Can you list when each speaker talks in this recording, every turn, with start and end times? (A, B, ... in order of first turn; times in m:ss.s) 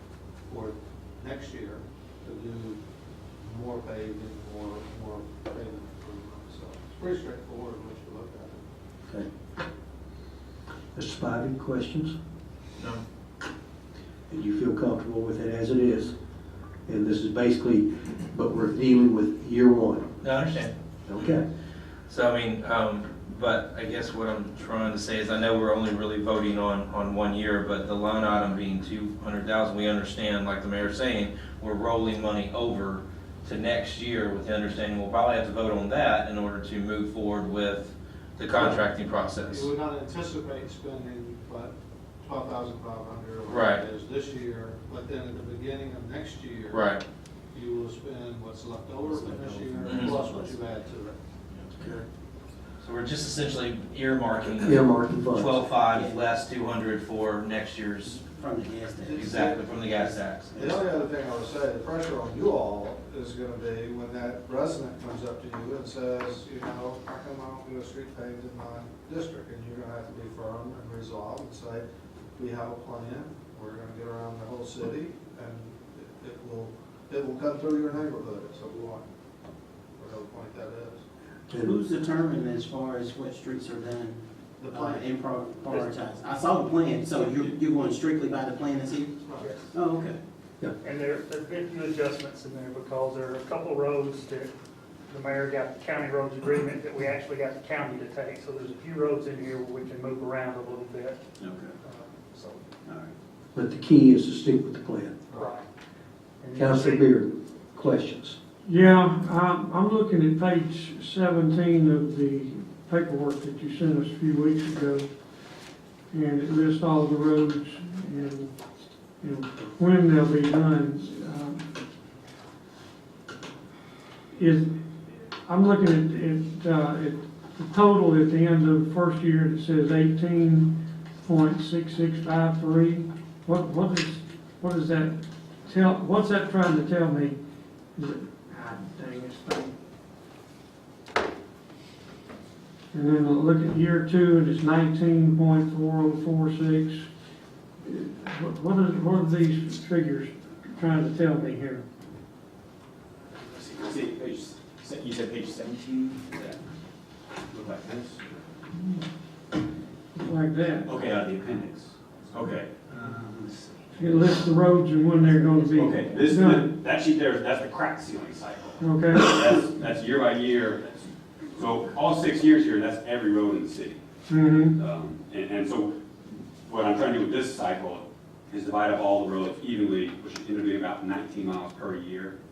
0:00.4-0:02.8 A
0:03.4-0:08.6 A
0:10.9-0:12.1 B
0:14.3-0:16.1 B
0:16.8-0:20.1 B
0:20.2-0:21.3 C
0:21.1-0:21.4 B
0:22.1-0:39.7 C
0:38.5-0:38.8 A
0:39.4-0:46.9 A
0:43.5-0:43.8 C
0:46.7-0:47.0 C
0:47.5-0:51.2 A
0:49.0-0:50.9 D
0:49.8-0:50.1 C
0:52.8-0:58.2 C
0:54.5-0:55.6 B
0:55.9-0:56.2 D
0:58.1-1:00.8 D
0:59.0-0:59.6 A
0:59.1-1:00.5 C
1:00.6-1:11.8 A
1:12.4-1:19.0 A
1:20.0-1:21.0 A
1:21.5-1:21.8 B
1:21.6-1:30.2 D
1:24.6-1:25.1 A
1:29.2-1:29.6 A
1:30.8-1:34.5 E
1:35.1-1:41.2 E
1:41.4-1:41.8 D
1:41.8-1:42.6 E
1:42.8-1:43.1 D
1:43.5-1:45.2 B
1:45.3-1:45.6 E
1:46.4-1:47.1 E
1:46.6-1:48.4 B
1:48.6-1:55.1 F
1:56.1-1:58.5 F
1:59.2-2:01.6 F
2:04.3-2:17.4 F
2:17.9-2:19.7 F
2:22.9-2:27.1 F
2:27.8-2:31.8 F
2:33.4-2:36.6 G
2:37.5-2:38.2 G
2:40.1-2:40.9 F
2:40.8-2:43.6 G
2:44.0-2:46.7 F
2:45.7-2:51.0 G
2:48.8-2:49.3 F
2:51.5-2:54.0 G
2:54.3-2:54.8 F
2:54.7-2:56.0 G
2:56.6-3:02.4 G